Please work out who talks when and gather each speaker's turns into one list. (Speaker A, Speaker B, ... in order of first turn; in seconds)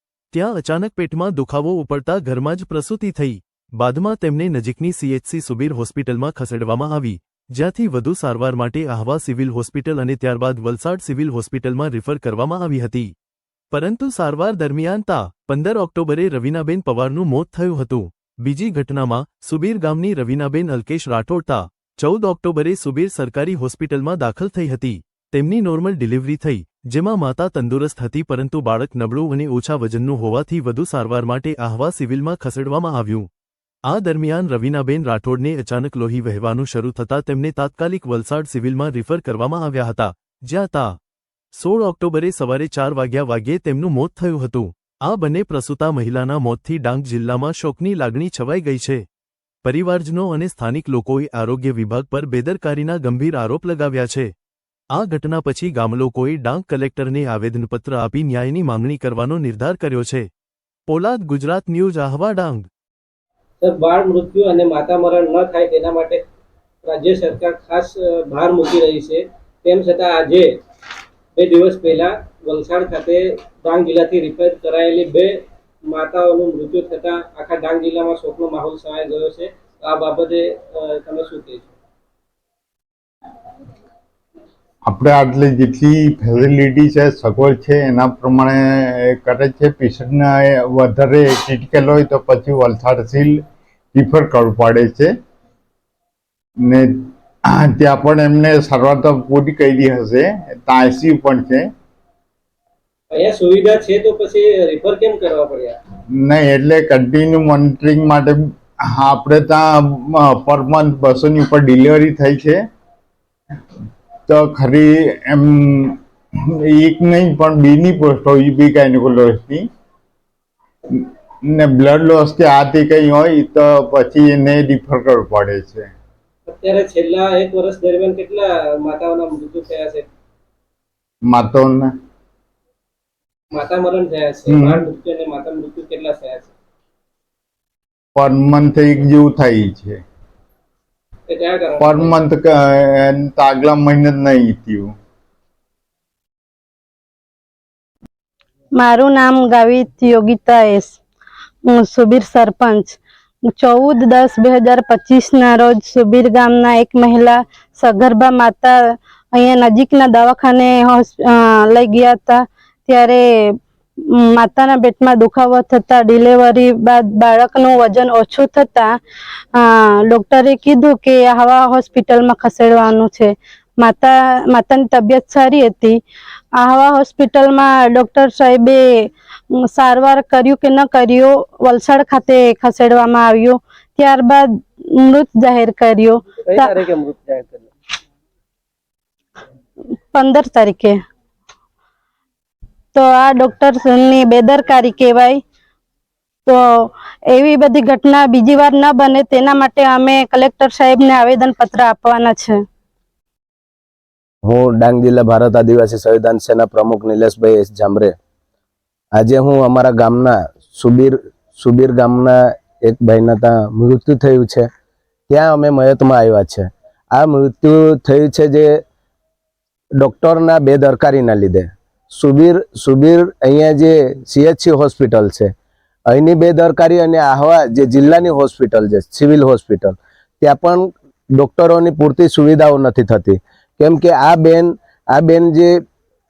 Speaker A: 0.3-13.1, 13.7-33.3, 33.9-40.9, 41.5-49.0, 49.6-54.3, 54.9-60.3, 60.9-62.7
Speaker B: 63.6-66.2, 66.9-70.5, 71.4-75.3, 75.9-81.7, 103.1-105.8, 126.5-130.1, 133.5-136.5, 141.3-142.1, 186.5-187.7
Speaker C: 84.9-93.4, 93.9-95.1, 96.6-96.9, 97.5-101.7, 106.1-108.4, 109.0-112.6, 114.3-116.0, 116.7-119.7, 121.5-125.9, 131.3-131.9, 134.5-134.9, 138.2-140.0, 141.8-144.9
Speaker D: 148.8-151.0, 151.7-153.0, 153.5-169.0, 169.5-176.0, 176.6-186.8, 190.1-191.0, 192.9-195.4, 196.5-202.7
Speaker E: 204.4-208.2, 209.2-214.7, 215.3-218.8, 220.0-225.5, 226.1-235.8